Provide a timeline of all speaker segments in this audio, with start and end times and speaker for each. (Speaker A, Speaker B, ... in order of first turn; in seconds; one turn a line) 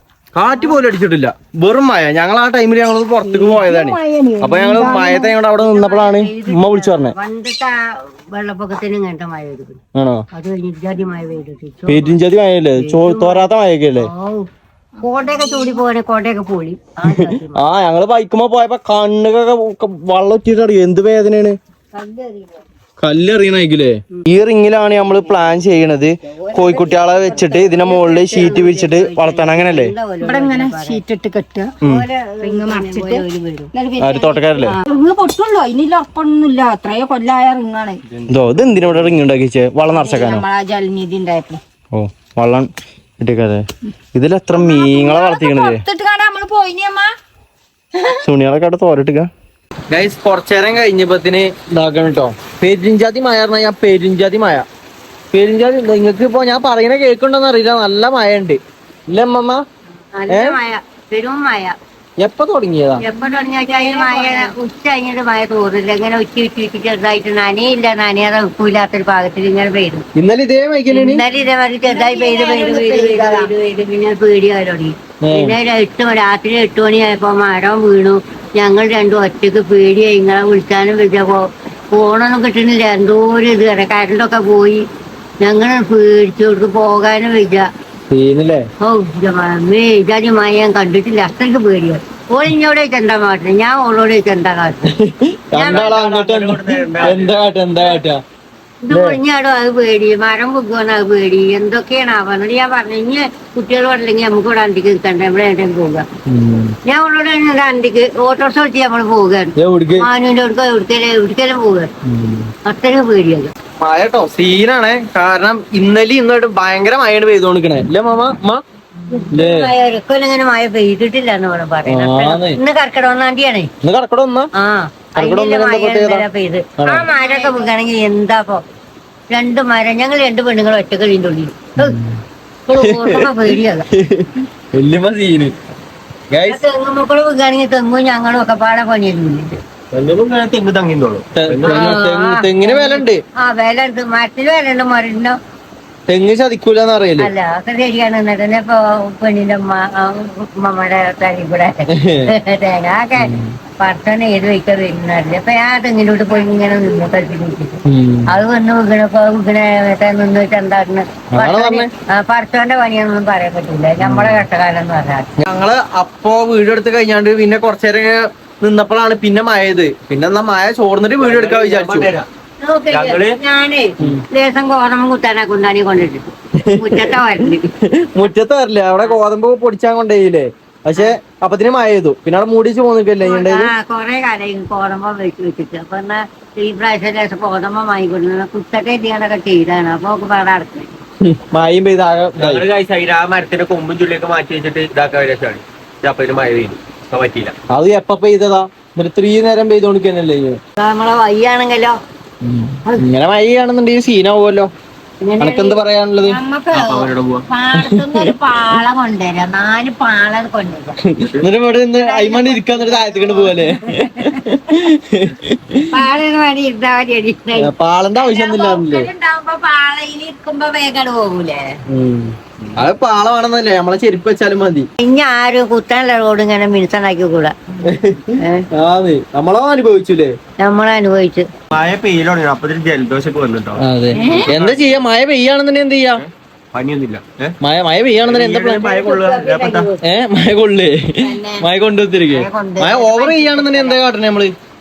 Speaker A: 0.3-7.2
Speaker B: 3.2-5.4
Speaker C: 5.6-9.8
Speaker A: 9.9-10.2
Speaker C: 10.3-12.2
Speaker A: 11.9-14.1
Speaker C: 12.8-14.4
Speaker B: 15.0-15.8
Speaker C: 15.0-17.6
Speaker A: 17.1-21.6
Speaker C: 21.9-22.6
Speaker A: 23.0-29.9
Speaker C: 24.9-25.6
Speaker C: 26.3-31.0
Speaker B: 30.2-31.7
Speaker C: 31.8-33.7
Speaker B: 32.4-38.0
Speaker A: 34.0-34.8
Speaker D: 38.1-39.2
Speaker A: 38.3-40.4
Speaker B: 39.9-41.6
Speaker A: 41.9-42.7
Speaker A: 43.2-43.6
Speaker A: 44.1-45.8
Speaker B: 44.5-47.1
Speaker B: 48.0-48.2
Speaker A: 48.2-49.3
Speaker A: 49.9-54.7
Speaker A: 55.3-59.6
Speaker C: 60.1-61.8
Speaker A: 60.3-60.6
Speaker A: 62.2-63.0
Speaker C: 63.0-70.0
Speaker B: 63.1-64.5
Speaker A: 70.2-71.2
Speaker C: 70.9-84.8
Speaker B: 71.9-73.5
Speaker A: 75.2-75.6
Speaker C: 85.4-87.7
Speaker A: 88.1-88.7
Speaker C: 88.8-94.9
Speaker A: 94.9-98.2
Speaker C: 95.5-95.9
Speaker D: 95.6-97.3
Speaker C: 98.8-106.0
Speaker A: 98.9-99.2
Speaker A: 106.3-106.8
Speaker C: 106.9-111.9
Speaker A: 109.6-110.1
Speaker A: 112.1-112.5
Speaker C: 112.7-113.5
Speaker A: 113.8-118.6
Speaker C: 119.1-123.7
Speaker A: 119.3-119.7
Speaker A: 121.8-122.6
Speaker A: 123.8-124.5
Speaker C: 124.6-128.6
Speaker A: 125.2-126.2
Speaker A: 126.8-127.1
Speaker B: 127.1-127.7
Speaker C: 129.3-132.0
Speaker A: 131.8-132.2
Speaker C: 132.7-133.9
Speaker A: 132.8-135.6
Speaker A: 136.3-136.6
Speaker C: 136.5-139.5
Speaker D: 139.9-142.0
Speaker A: 141.3-143.2
Speaker C: 141.7-145.4
Speaker A: 146.1-147.3
Speaker C: 147.2-165.3
Speaker A: 151.9-152.3
Speaker A: 153.2-153.6
Speaker A: 157.9-158.4
Speaker A: 161.3-161.9
Speaker A: 164.0-164.4
Speaker A: 165.4-172.1
Speaker D: 171.2-172.3
Speaker C: 172.6-177.7
Speaker A: 172.9-173.3
Speaker A: 176.6-177.2
Speaker A: 177.8-183.7
Speaker C: 183.2-190.9
Speaker A: 191.2-192.7
Speaker D: 192.4-197.6
Speaker A: 197.7-200.6
Speaker C: 200.8-202.0
Speaker A: 202.4-204.7
Speaker C: 205.2-205.8
Speaker A: 205.4-206.4
Speaker B: 206.2-210.9
Speaker D: 206.7-207.3
Speaker A: 207.7-208.3
Speaker A: 211.1-215.9
Speaker B: 212.0-214.4
Speaker C: 215.9-217.7
Speaker A: 217.6-219.1
Speaker B: 218.2-221.7
Speaker A: 221.9-224.9
Speaker C: 225.0-227.5
Speaker A: 227.9-230.3
Speaker C: 228.4-228.7
Speaker C: 230.6-231.5
Speaker D: 231.7-233.8
Speaker A: 233.8-236.2
Speaker B: 234.1-234.5
Speaker D: 234.4-235.1
Speaker D: 236.1-237.6
Speaker A: 237.6-239.1
Speaker D: 238.2-239.9
Speaker C: 238.9-240.0
Speaker A: 240.0-244.6
Speaker B: 241.2-241.7
Speaker C: 242.3-244.0
Speaker B: 242.6-243.5